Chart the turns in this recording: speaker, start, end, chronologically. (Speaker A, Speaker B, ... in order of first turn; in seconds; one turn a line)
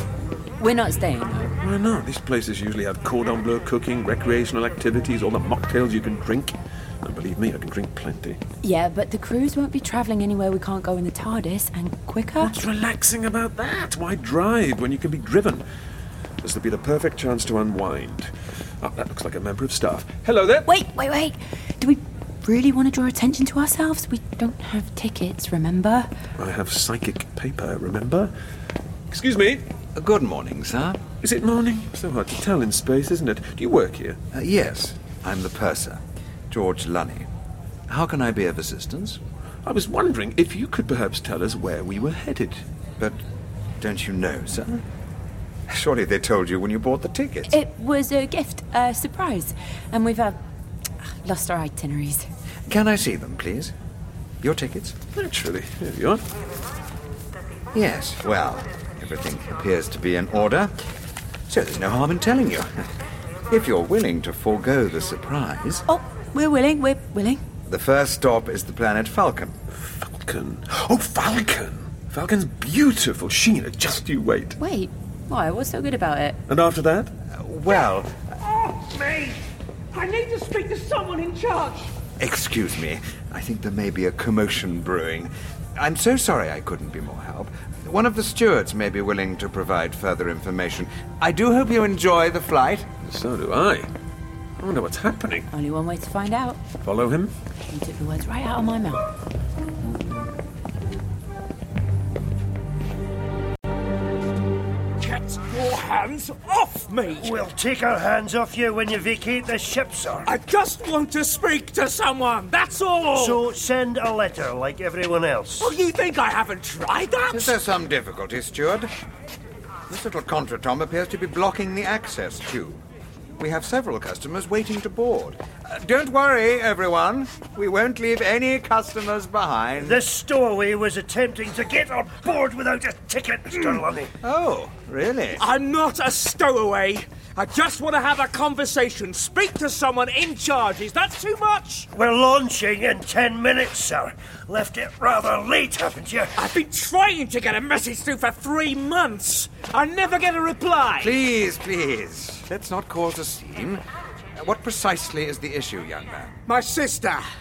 Speaker A: 0.6-1.5
Speaker B: 1.6-8.4
Speaker A: 8.6-12.6
Speaker B: 12.4-15.6
Speaker B: 16.4-18.3
Speaker B: 18.8-20.7
Speaker A: 20.6-26.1
Speaker B: 26.4-28.3
Speaker B: 29.1-29.6
Speaker C: 29.9-31.0
Speaker B: 31.2-34.2
Speaker C: 34.3-37.3
Speaker C: 37.9-39.2
Speaker B: 39.6-42.6
Speaker C: 43.8-44.8
Speaker C: 45.7-47.5
Speaker A: 47.5-50.4
Speaker A: 51.0-52.3
Speaker C: 52.7-53.7
Speaker C: 54.4-55.0
Speaker B: 55.1-56.2
Speaker C: 57.7-60.7
Speaker C: 61.5-62.8
Speaker C: 63.5-65.8
Speaker A: 65.9-67.4
Speaker C: 67.7-69.6
Speaker B: 69.7-74.6
Speaker A: 74.6-76.4
Speaker B: 76.5-77.1
Speaker C: 77.3-78.2
Speaker D: 78.4-79.4
Speaker D: 79.9-81.9
Speaker C: 82.2-92.9
Speaker B: 93.0-93.9
Speaker B: 94.6-95.5
Speaker A: 95.5-96.6
Speaker B: 96.8-97.3
Speaker A: 97.6-99.0
Speaker D: 105.0-107.5
Speaker E: 107.2-110.3
Speaker D: 110.2-113.4
Speaker E: 113.1-115.7
Speaker D: 115.6-117.5
Speaker C: 117.3-118.9
Speaker C: 119.9-122.8
Speaker C: 123.4-130.0
Speaker E: 129.8-134.1
Speaker C: 134.2-135.4
Speaker D: 135.4-141.9
Speaker E: 141.9-146.3
Speaker D: 146.3-151.2
Speaker C: 151.0-153.8
Speaker C: 154.3-156.4
Speaker D: 156.4-157.2